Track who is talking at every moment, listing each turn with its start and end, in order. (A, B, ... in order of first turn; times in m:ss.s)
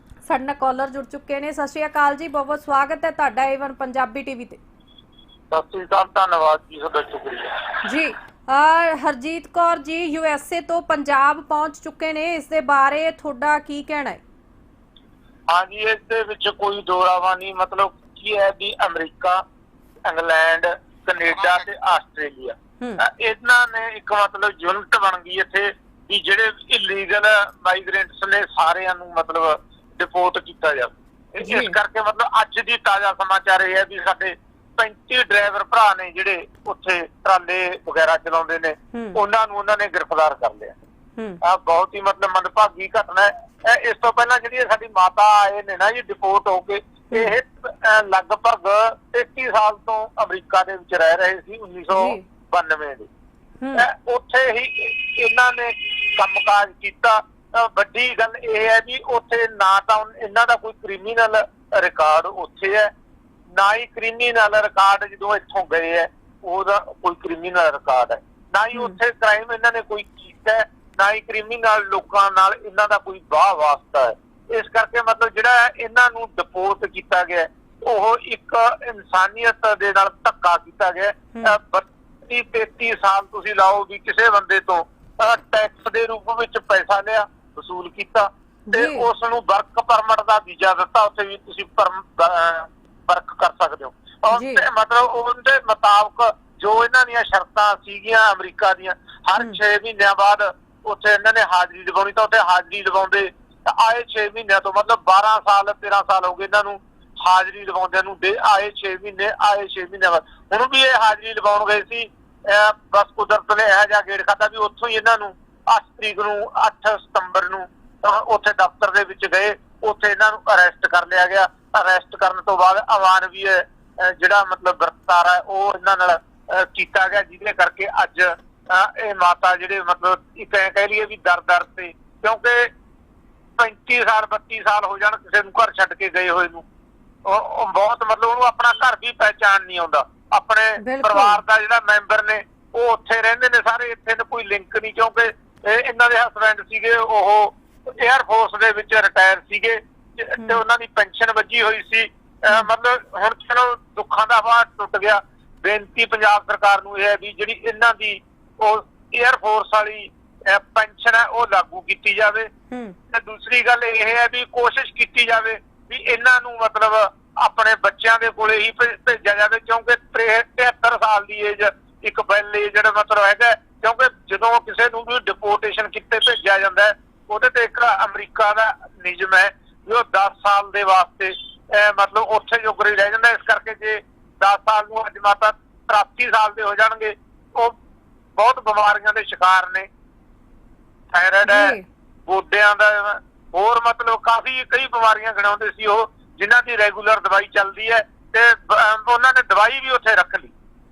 0:00.2-0:04.6 A
0:05.5-0:07.8 B
0:07.8-0:14.2 A
0:15.5-0:19.4 B
0:20.0-0:40.8 B
0:31.4-0:31.8 A
0:38.9-0:39.2 A
0:41.4-0:53.1 B
0:47.1-0:47.4 A
0:51.9-0:52.2 A
0:53.6-0:53.9 A
0:53.7-1:02.9 B
1:03.6-2:12.7 B
1:28.7-1:29.1 A
1:34.3-1:34.6 A
2:13.6-2:16.6 B
2:17.2-2:42.5 B
2:20.8-2:21.4 A
2:42.7-2:43.0 A
2:43.1-3:07.8 B
3:08.4-3:09.9 B
3:11.1-3:11.8 B
3:11.4-3:11.8 A
3:12.3-3:20.5 B